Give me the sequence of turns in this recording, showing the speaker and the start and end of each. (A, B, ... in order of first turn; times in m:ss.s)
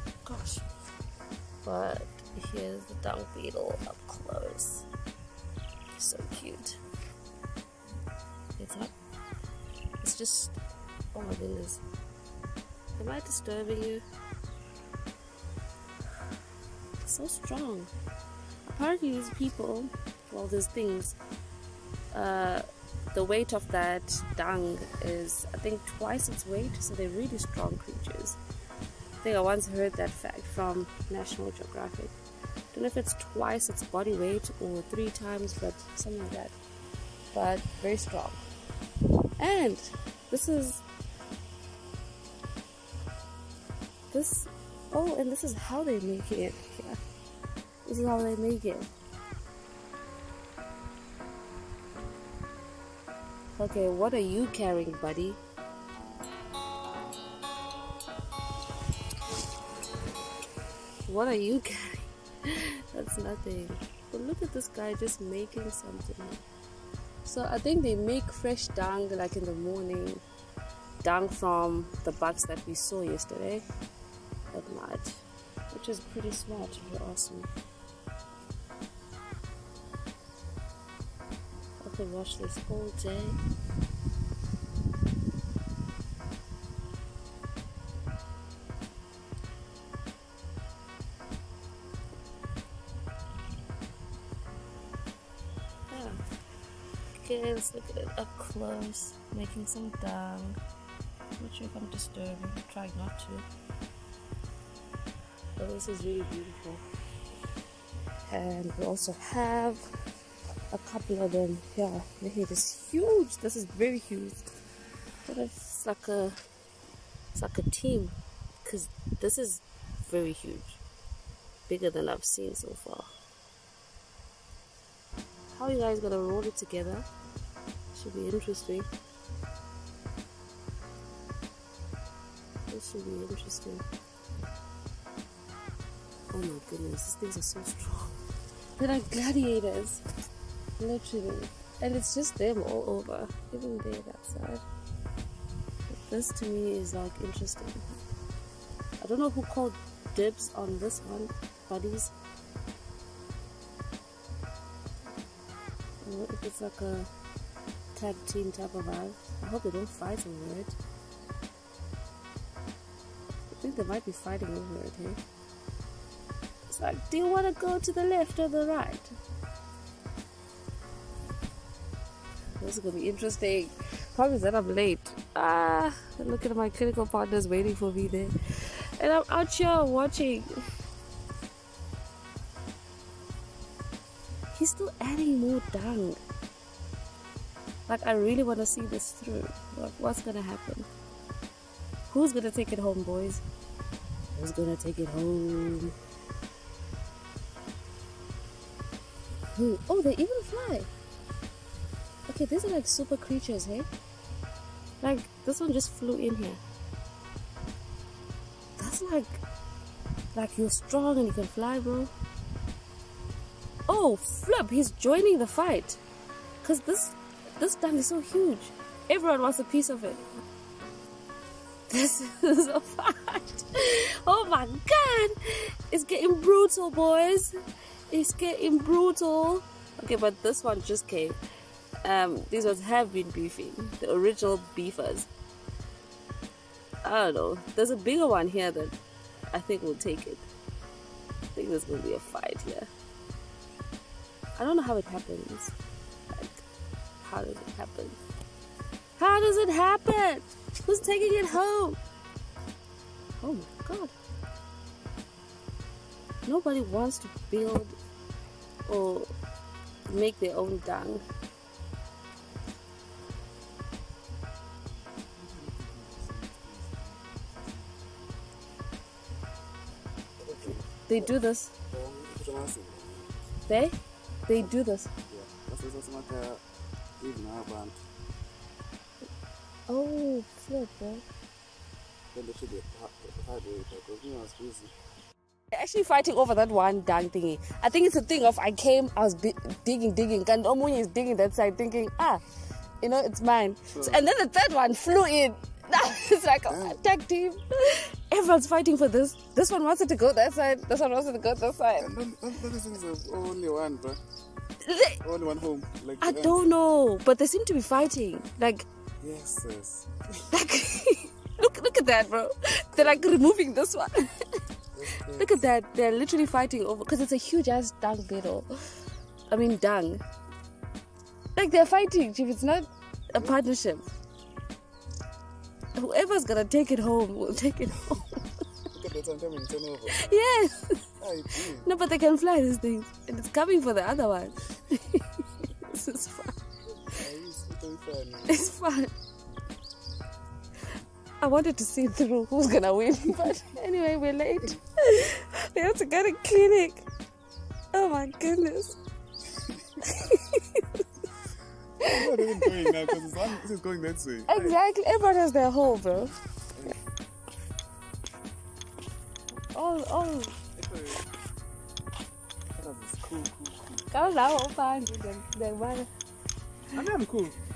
0:00.2-0:00.7 A
0:01.6-0:04.9 A
0:06.0-0:06.8 A
0:08.6-0:08.9 A
0:10.0-0:10.6 A
0:11.1-0:11.8 A
0:13.0-0:14.0 A
0:17.0-0:17.9 A
0:18.6-0:21.2 A
0:22.1-0:28.4 A
0:29.2-0:32.1 A
0:32.7-0:36.6 A
0:37.3-0:38.4 A
0:39.4-0:40.8 A
0:44.1-0:47.0 A
0:47.8-0:48.9 A
0:53.6-0:55.4 A
1:01.0-1:06.4 A
1:07.2-1:10.2 A
1:11.0-1:13.6 A
1:14.5-1:17.5 A
1:21.8-1:23.4 A
1:35.9-1:36.2 A
1:37.1-1:40.6 A
1:41.4-1:43.4 A
1:45.6-1:46.8 A
1:48.3-1:49.8 A
1:50.7-1:54.5 A
1:55.2-1:56.4 A
1:57.3-2:00.8 A
2:01.7-2:03.1 A
2:05.5-2:07.0 A
2:07.9-2:08.9 A
2:12.7-2:13.8 A
2:16.3-2:18.2 A
2:18.8-2:20.0 A
2:20.8-2:24.6 A
2:25.9-2:28.0 A
2:29.0-2:32.1 A
2:36.0-2:37.1 A
2:37.9-2:40.8 A
2:43.5-2:45.2 A
2:46.7-2:49.1 A
2:52.6-3:00.6 A
3:04.5-3:06.2 A
3:07.9-3:10.9 A
3:12.1-3:13.4 A
3:14.3-3:16.0 A
3:19.5-3:20.9 A
3:22.3-3:23.9 A
3:25.0-3:26.6 A
3:28.8-3:29.4 A
3:30.3-3:32.1 A
3:33.9-3:36.0 A
3:36.6-3:40.2 A
3:41.9-3:47.5 A
3:48.1-3:51.4 A
3:52.0-3:55.3 A
3:57.0-3:58.9 A
3:59.5-4:00.5 A
4:01.5-4:02.9 A
4:04.6-4:05.7 A
4:06.3-4:06.6 A
4:07.2-4:08.2 A
4:09.2-4:12.0 A
4:13.4-4:14.1 A
4:16.4-4:18.0 A
4:18.9-4:19.3 A
4:20.1-4:21.2 A
4:25.3-4:27.9 B
4:30.4-4:30.9 B
4:31.1-4:31.7 A
4:31.9-4:33.3 B
4:33.7-4:35.1 A
4:35.3-4:36.6 B
4:37.2-4:38.0 B
4:39.9-4:41.2 A
4:42.3-4:44.9 B
4:45.7-4:52.4 A
4:53.0-5:02.1 A
4:53.9-4:54.2 B
4:56.7-4:57.0 B
5:02.0-5:04.2 B
5:04.8-5:05.2 A
5:05.2-5:06.6 B
5:06.2-5:08.9 A
5:09.2-5:10.2 B
5:10.5-5:14.4 A
5:13.0-5:13.2 B
5:14.9-5:15.5 B
5:15.4-5:18.7 A
5:19.5-5:20.2 A
5:21.6-5:24.1 A
5:25.9-5:28.4 A
5:28.9-5:30.4 B
5:30.1-5:31.1 A
5:31.2-5:31.8 B
5:31.7-5:36.6 A
5:37.1-5:38.6 B
5:38.5-5:39.1 A
5:41.4-5:47.0 A
5:47.9-5:49.0 A
5:50.0-5:51.0 A
5:52.0-5:53.2 A
5:52.0-5:54.8 B
5:54.5-5:56.3 A
5:59.7-6:00.5 A
6:00.8-6:01.3 B
6:02.7-6:04.0 B
6:04.1-6:06.1 A
6:06.9-6:07.6 B